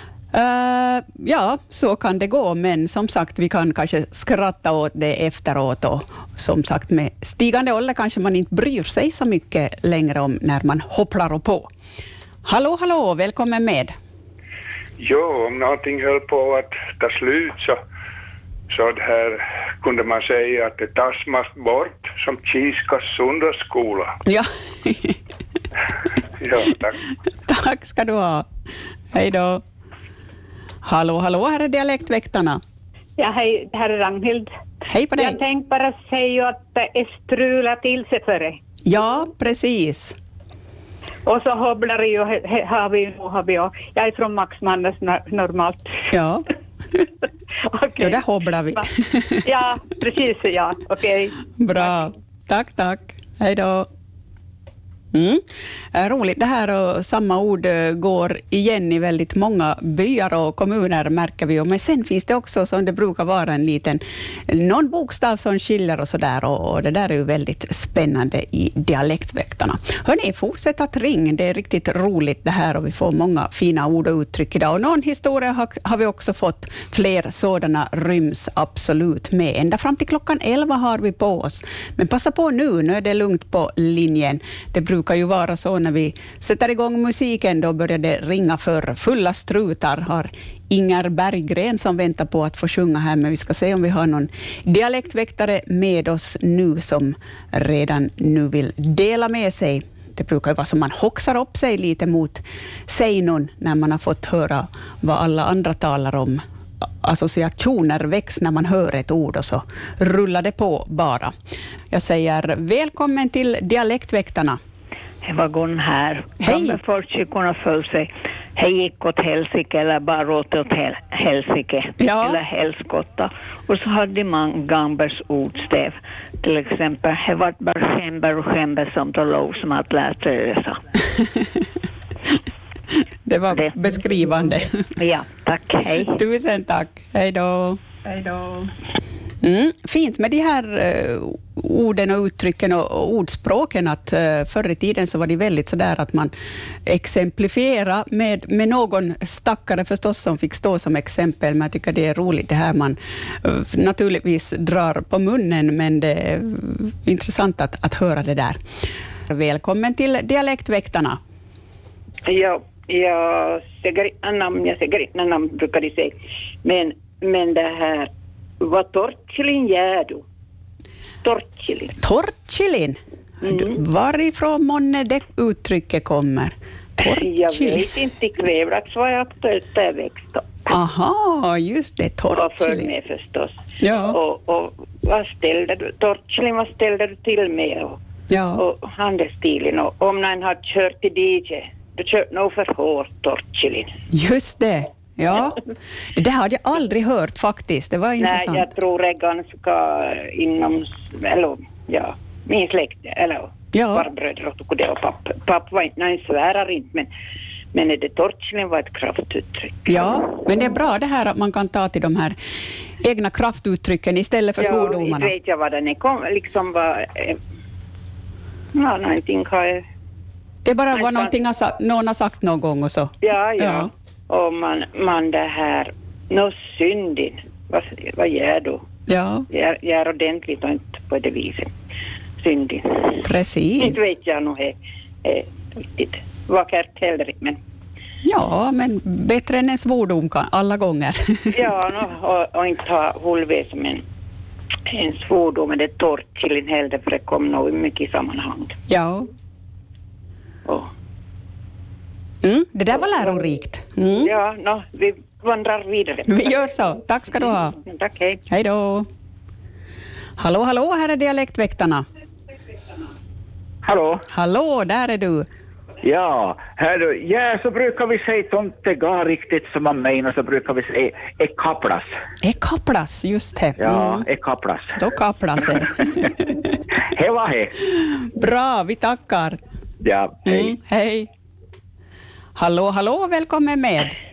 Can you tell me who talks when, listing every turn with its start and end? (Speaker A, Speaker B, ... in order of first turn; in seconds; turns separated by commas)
Speaker A: 0.3-11.7, Speaker A: 12.4-13.9, Speaker B: 15.0-17.8, Speaker B: 18.7-24.1, Speaker A: 24.2-25.2, Speaker B: 26.4-27.0, Speaker A: 27.4-28.5, Speaker A: 29.1-29.6, Speaker A: 30.8-32.6, Speaker C: 33.2-34.5, Speaker A: 34.9-35.4, Speaker C: 35.1-38.6, Speaker A: 38.9-40.1, Speaker C: 41.2-46.0, Speaker A: 46.1-46.5, Speaker C: 47.7-48.2, Speaker A: 48.0-49.4, Speaker C: 49.4-51.4, Speaker A: 51.6-53.9, Speaker A: 55.1-106.4, Speaker A: 107.0-111.3, Speaker A: 111.9-114.6, Speaker D: 115.2-130.8, Speaker A: 116.4-116.8, Speaker A: 122.0-122.4, Speaker A: 133.2-134.7, Speaker D: 135.0-136.2, Speaker A: 136.0-137.8, Speaker C: 138.1-138.6, Speaker A: 139.4-146.3, Speaker A: 146.8-158.6, Speaker A: 159.3-161.2, Speaker E: 162.2-170.2, Speaker E: 171.2-171.9, Speaker A: 172.0-177.9, Speaker E: 173.4-173.8, Speaker E: 177.0-180.6, Speaker A: 180.7-182.9, Speaker E: 182.3-183.5, Speaker A: 183.8-184.2, Speaker E: 184.1-188.0, Speaker A: 188.3-188.6, Speaker E: 188.6-193.9, Speaker A: 194.1-195.6, Speaker A: 196.1-198.7, Speaker E: 198.2-207.1, Speaker A: 203.7-204.1, Speaker E: 207.7-209.9, Speaker A: 209.9-212.4, Speaker A: 213.0-215.3, Speaker E: 214.6-217.4, Speaker E: 218.7-219.8, Speaker A: 220.6-223.9, Speaker E: 220.9-221.3, Speaker E: 223.2-228.8, Speaker A: 229.1-229.4, Speaker E: 229.5-231.7, Speaker E: 232.4-233.2, Speaker A: 233.2-234.0, Speaker E: 233.8-237.6, Speaker A: 238.2-241.6, Speaker E: 241.5-244.0, Speaker E: 244.9-248.7, Speaker A: 248.9-249.3, Speaker A: 252.4-254.3, Speaker E: 254.2-256.4, Speaker A: 256.3-257.8, Speaker E: 257.8-258.4, Speaker A: 258.5-259.1, Speaker A: 260.4-262.0, Speaker F: 263.8-264.2, Speaker A: 264.3-265.5, Speaker F: 266.0-272.1, Speaker A: 272.4-274.2, Speaker F: 273.8-275.0, Speaker A: 275.0-276.7, Speaker F: 277.1-277.7, Speaker A: 278.0-279.6, Speaker F: 280.0-280.7, Speaker A: 280.4-281.3, Speaker A: 282.6-284.2